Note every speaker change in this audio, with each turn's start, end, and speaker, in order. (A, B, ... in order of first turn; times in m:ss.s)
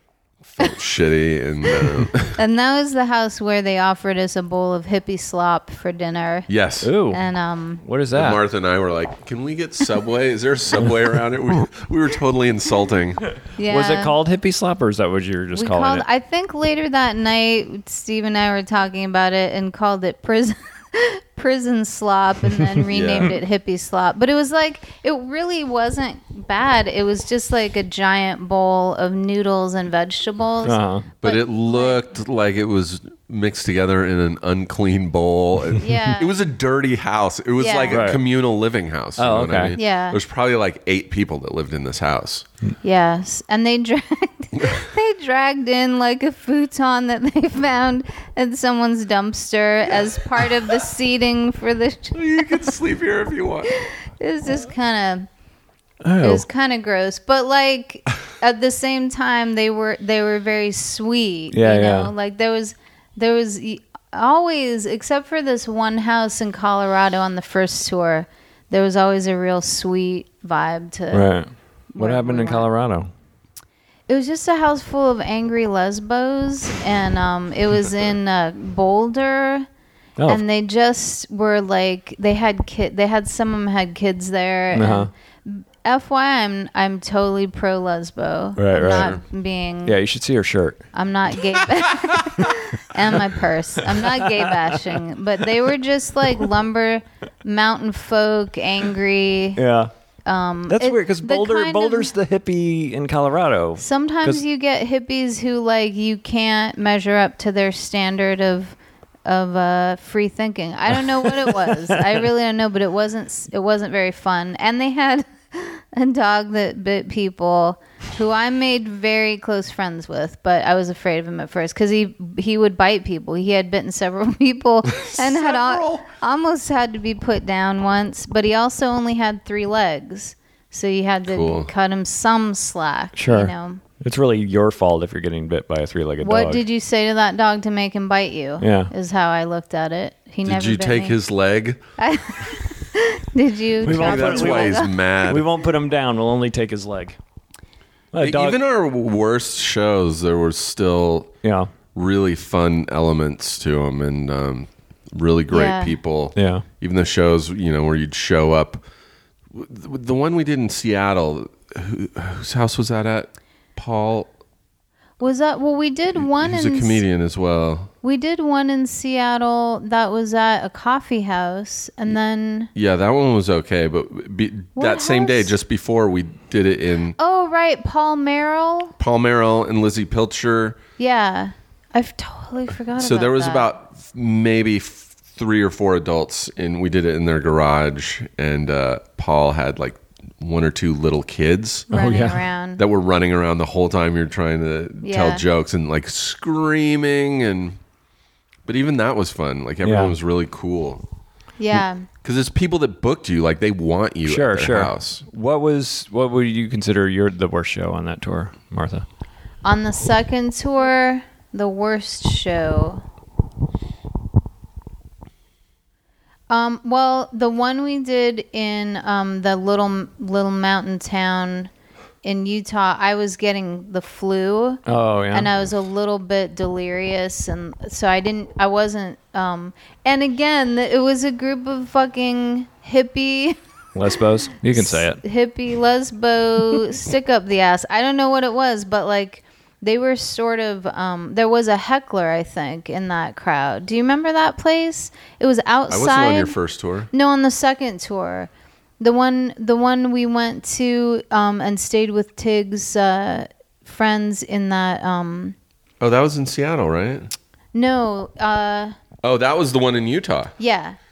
0:00.4-0:02.4 A
0:02.3-0:06.5 B
0:06.5-0:06.9 A
0:06.8-0:07.2 C
0:07.1-0:07.8 B
0:07.8-0:08.4 C
0:08.1-0:13.2 A
0:13.6-0:14.2 B
0:13.7-0:16.0 C
0:15.5-0:32.0 B
0:22.9-0:23.4 A
0:30.6-0:31.0 C
0:31.2-0:42.4 A
0:35.8-0:36.4 B
0:37.6-0:38.1 B
0:37.9-0:38.2 C
0:39.2-0:39.8 C
0:39.7-0:40.2 B
0:42.8-0:52.7 B
0:44.6-0:44.8 A
0:52.1-0:53.8 A
0:53.7-0:55.3 B
0:56.0-0:56.4 C
0:56.2-1:11.3 B
1:01.5-1:02.1 C
1:11.1-1:13.1 C
1:11.9-1:12.7 B
1:14.1-1:19.7 B
1:20.3-1:30.0 B
1:24.7-1:25.1 C
1:28.6-1:29.2 C
1:28.9-1:29.2 A
1:29.8-1:30.8 C
1:30.9-1:39.6 B
1:33.9-1:35.0 C
1:39.6-1:39.9 C
1:40.2-1:42.1 B
1:40.7-1:44.4 C
1:43.8-2:13.8 B
1:51.2-1:52.2 C
2:04.9-2:06.1 A
2:11.3-2:11.7 A
2:13.2-2:16.6 C
2:16.2-2:21.2 B
2:18.6-2:18.9 C
2:20.4-2:21.8 A
2:22.0-2:24.9 B
2:23.8-2:27.2 C
2:23.8-2:25.4 A
2:28.1-2:28.6 C
2:28.2-2:31.3 A
2:31.4-2:31.7 C
2:31.9-2:38.8 A
2:35.5-2:36.0 B
2:36.3-2:36.6 C
2:39.5-2:44.3 A
2:45.2-2:47.0 B
2:46.2-2:47.9 A
2:48.0-2:52.7 B
2:52.7-2:57.2 A
2:54.8-2:55.5 B
2:57.2-2:58.9 B
2:59.0-3:00.8 A
3:01.0-3:03.7 B
3:03.0-3:11.9 A
3:11.9-3:12.8 B
3:11.9-3:12.4 C
3:12.8-3:17.8 A
3:15.0-3:15.4 B
3:18.6-3:21.0 A
3:19.8-3:20.2 C
3:21.6-3:22.1 B
3:22.2-3:25.2 A
3:24.2-3:29.0 C
3:29.6-3:33.0 B
3:36.5-3:41.7 B
3:42.2-3:53.6 B
3:44.8-3:45.5 C
3:53.9-3:55.2 C
3:54.6-4:06.6 B
4:05.9-4:07.1 A
4:07.1-4:15.5 B
4:16.0-4:17.3 A
4:17.7-4:18.9 B
4:19.2-4:20.5 A
4:20.6-4:21.0 B